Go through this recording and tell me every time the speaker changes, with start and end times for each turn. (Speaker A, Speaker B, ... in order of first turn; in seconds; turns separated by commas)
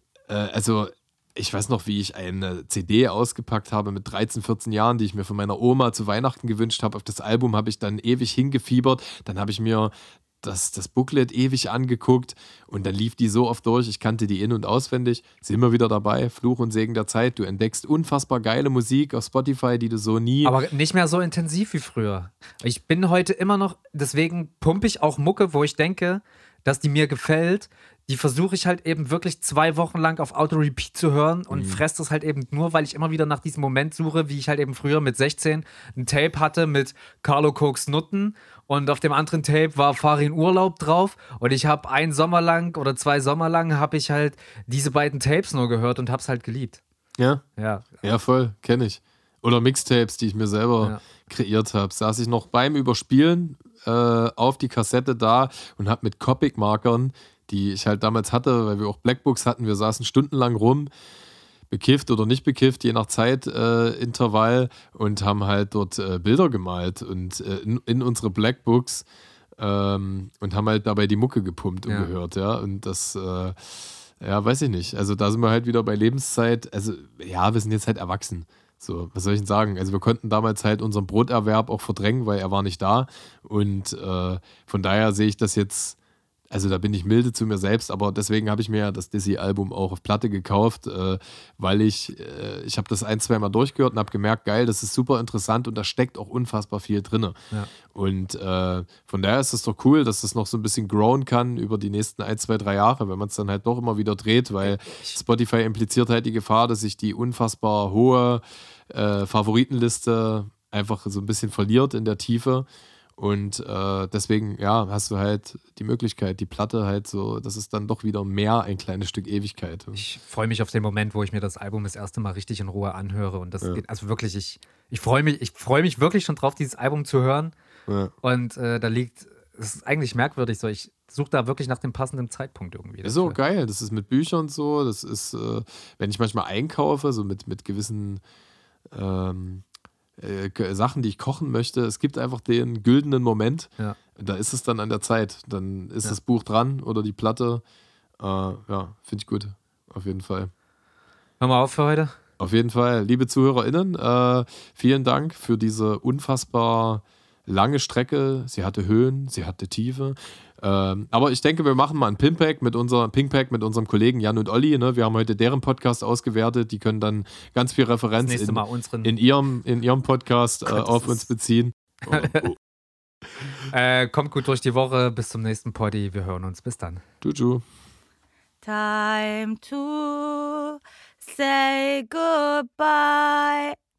Speaker A: 0.3-20.6, Speaker B: 20.4-46.8, Speaker A: 31.5-31.8, Speaker A: 47.2-47.4, Speaker B: 47.6-48.0, Speaker A: 48.0-60.9, Speaker A: 61.7-69.1, Speaker A: 69.6-73.6, Speaker A: 74.2-86.0, Speaker A: 86.5-97.4, Speaker A: 97.9-112.7, Speaker B: 104.6-105.2, Speaker A: 113.2-120.0, Speaker B: 120.0-127.5, Speaker A: 127.9-128.1, Speaker B: 128.2-133.4, Speaker A: 133.0-138.2, Speaker A: 138.9-139.7, Speaker A: 140.2-147.6, Speaker A: 148.2-150.5, Speaker B: 151.4-152.2, Speaker A: 152.4-172.6, Speaker B: 168.2-169.1, Speaker B: 170.7-171.3, Speaker B: 172.1-172.5, Speaker B: 173.7-177.0, Speaker A: 177.2-177.6, Speaker C: 178.6-183.8